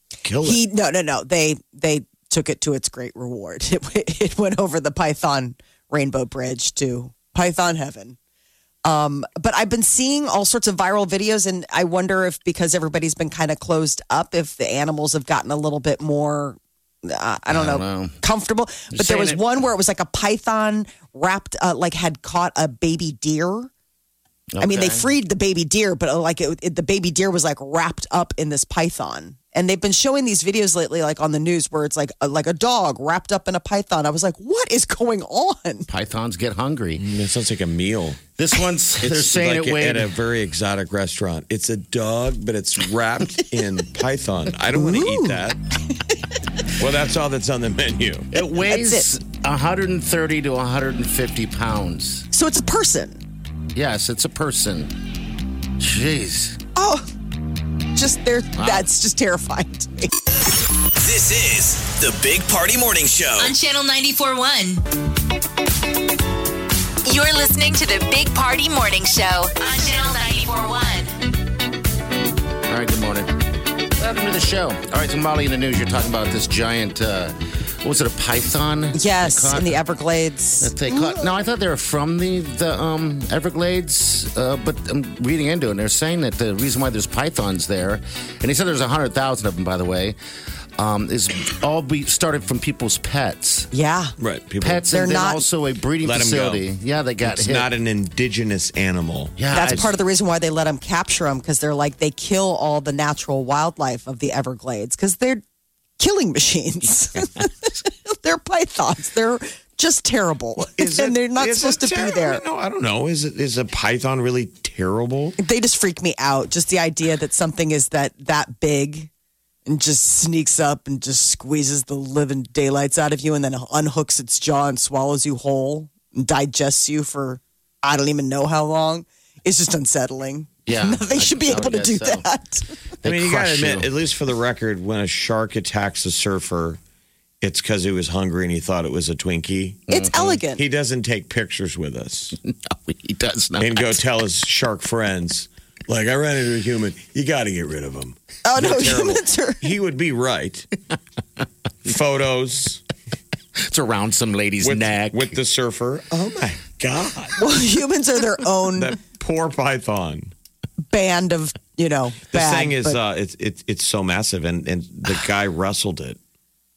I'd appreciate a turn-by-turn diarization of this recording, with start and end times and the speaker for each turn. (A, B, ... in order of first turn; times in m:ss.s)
0:00.2-0:00.6 A
0:00.4-0:08.2 B
0:08.8-0:23.7 B
0:17.5-0:18.2 C
0:18.9-0:19.5 C
0:24.5-0:25.0 C
0:24.6-0:35.9 B
0:35.9-0:37.0 C
0:37.0-0:38.2 A
0:38.4-0:40.1 C
0:39.0-0:45.6 A
0:44.7-0:45.4 B
0:46.8-0:48.3 A
0:48.3-0:52.3 C
0:48.6-0:49.1 B
0:52.3-0:53.2 B
0:53.7-0:54.9 C
0:55.8-0:56.6 C
0:56.8-0:57.0 B
0:57.9-1:00.1 B
0:58.6-0:58.9 C
1:01.0-1:03.5 D
1:03.4-1:04.8 E
1:07.0-1:11.1 E
1:12.7-1:13.3 C
1:13.9-1:19.8 C
1:18.9-1:21.3 B
1:20.6-1:30.2 C
1:30.8-1:33.7 C
1:33.7-1:34.1 B
1:34.2-1:34.9 A
1:34.6-1:37.7 C
1:34.9-1:35.4 B
1:36.0-1:36.6 A
1:37.2-1:39.7 A
1:39.4-1:39.9 C
1:39.5-1:45.4 B
1:46.0-1:52.4 B
1:50.7-1:55.4 A
1:55.4-1:59.1 B
1:59.7-2:12.7 B
2:10.6-2:12.2 C
2:13.0-2:13.9 C
2:13.0-2:16.8 A
2:17.4-2:19.8 A
2:19.9-2:20.4 C
2:19.9-2:20.6 B
2:20.6-2:22.4 A
2:22.4-2:24.0 C
2:23.6-2:30.7 A
2:28.4-2:29.6 B
2:31.8-2:32.8 A
2:33.6-2:35.4 C
2:34.6-2:37.4 A
2:37.4-2:39.0 B
2:38.8-2:40.3 A
2:40.9-2:43.0 B
2:42.3-2:46.2 A